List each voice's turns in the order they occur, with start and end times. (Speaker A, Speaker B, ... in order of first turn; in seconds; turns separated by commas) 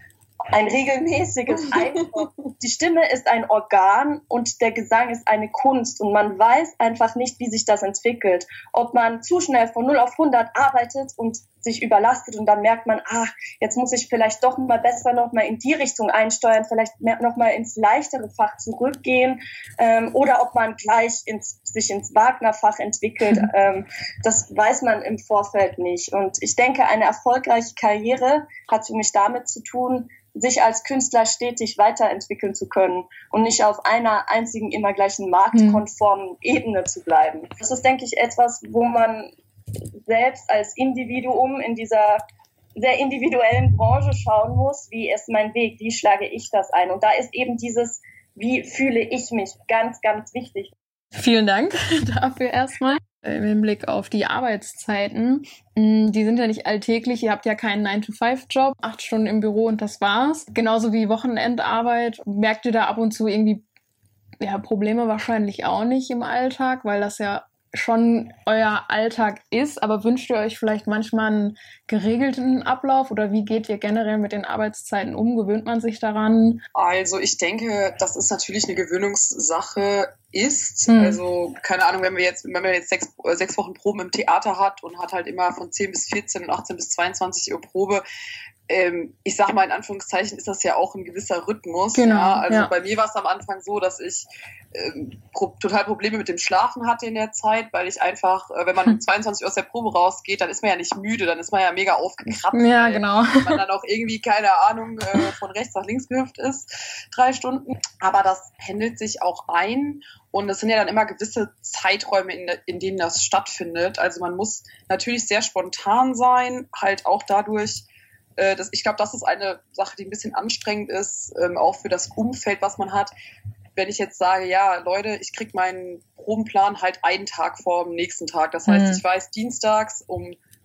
Speaker A: 0.5-39.3, Speaker B: 1.6-2.2, Speaker C: 35.5-35.8, Speaker A: 40.0-42.2, Speaker A: 42.8-50.7, Speaker C: 51.1-63.6, Speaker C: 64.4-76.6, Speaker B: 76.7-88.0, Speaker C: 80.9-81.2, Speaker B: 88.7-117.8, Speaker C: 91.9-92.7, Speaker C: 102.5-103.6, Speaker B: 118.4-123.1, Speaker B: 123.8-130.4, Speaker C: 128.7-129.0